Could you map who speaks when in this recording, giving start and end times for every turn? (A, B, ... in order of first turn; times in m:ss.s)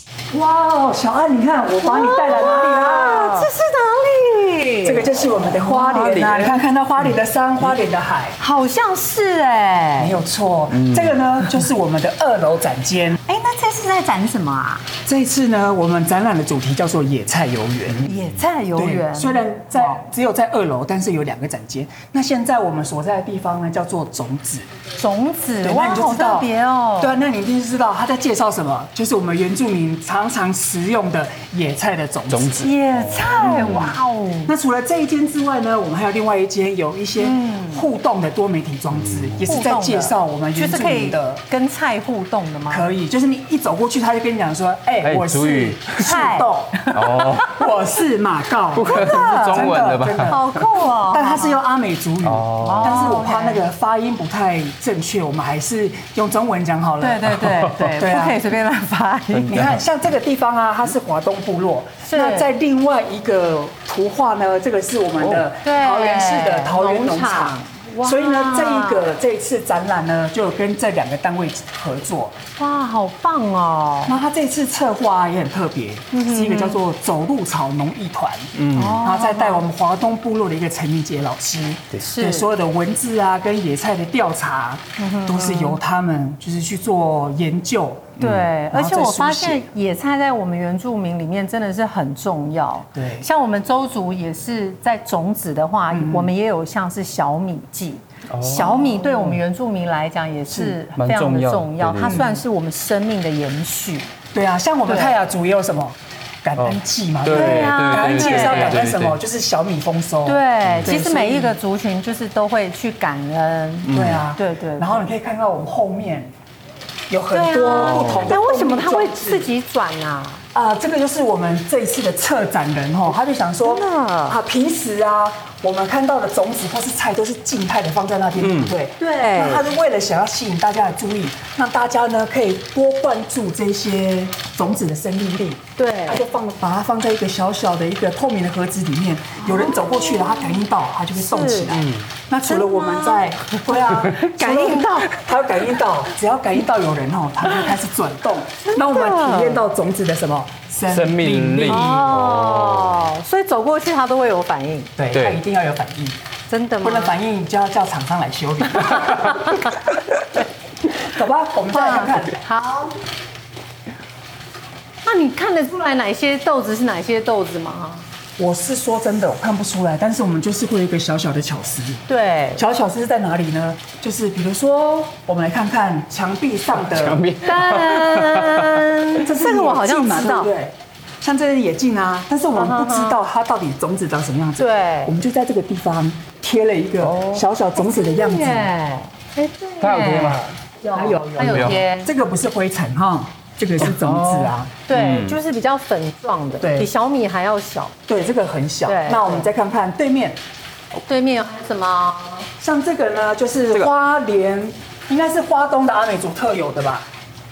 0:00.3-0:03.5 A
0:01.8-0:06.1 B
0:04.8-0:08.4 A
0:05.8-0:06.5 C
0:08.4-0:10.1 B
0:10.0-0:13.2 A
0:10.8-0:11.1 C
0:13.2-0:14.9 B
0:15.0-0:18.1 A
0:18.0-0:20.0 B
0:18.7-0:24.7 A
0:25.0-0:27.1 B
0:25.6-0:26.5 A
0:27.0-0:41.4 A
0:32.3-0:33.8 C
0:32.6-0:34.5 B
0:37.2-0:37.8 B
0:39.4-0:42.9 B
0:42.7-0:58.4 A
0:45.0-0:46.0 C
0:46.0-0:47.2 B
0:46.9-0:47.5 C
0:48.8-0:50.4 C
0:48.8-0:49.7 B
0:50.2-0:51.6 B
0:52.2-0:53.0 C
0:52.6-0:53.6 B
0:57.0-0:59.5 B
0:59.3-0:59.8 C
0:59.5-1:12.3 A
1:02.1-1:02.5 B
1:05.2-1:05.4 C
1:05.6-1:09.1 B
1:12.6-1:14.2 B
1:14.0-1:29.7 A
1:16.1-1:16.8 B
1:18.5-1:19.0 C
1:18.7-1:19.6 B
1:22.0-1:22.5 B
1:25.0-1:25.8 B
1:28.2-1:44.1 B
1:28.2-1:28.5 C
1:32.9-1:33.3 A
1:35.9-1:36.3 A
1:38.3-1:39.4 C
1:40.5-1:40.8 A
1:40.9-1:42.2 C
1:42.0-1:42.4 A
1:44.3-1:51.6 A
1:44.8-1:45.1 B
1:46.6-1:49.2 C
1:47.3-1:48.9 B
1:50.2-1:55.0 B
1:50.6-1:50.9 C
1:53.9-1:54.2 C
1:53.9-1:56.3 A
1:57.1-1:59.5 A
1:57.3-2:00.4 B
1:57.7-1:58.3 C
2:00.5-2:32.0 A
2:03.6-2:04.4 B
2:08.4-2:08.7 C
2:09.0-2:09.7 B
2:15.8-2:16.2 B
2:19.4-2:20.6 B
2:21.2-2:21.8 B
2:21.7-2:22.0 C
2:22.5-2:23.4 B
2:24.1-2:25.2 B
2:28.6-2:29.6 B
2:30.8-2:33.0 C
2:31.6-2:34.9 B
2:35.0-2:36.2 A
2:35.1-2:35.4 C
2:36.5-2:37.2 B
2:36.8-2:39.3 A
2:41.1-2:42.4 A
2:41.7-2:42.9 B
2:45.0-2:48.0 B
2:48.4-2:52.0 A
2:52.1-2:52.6 B
2:52.6-2:57.2 A
2:56.8-2:58.8 C
2:57.4-3:00.5 B
2:59.2-3:08.7 A
3:02.5-3:03.2 B
3:04.6-3:05.2 B
3:07.0-3:07.4 C
3:07.8-3:12.1 B
3:09.8-3:10.6 C
3:10.9-3:14.8 A
3:11.5-3:11.8 C
3:13.9-3:15.4 C
3:14.9-3:17.9 B
3:16.6-3:16.9 A
3:18.1-3:20.4 A
3:18.8-3:19.5 B
3:21.0-3:22.5 B
3:22.6-3:27.0 A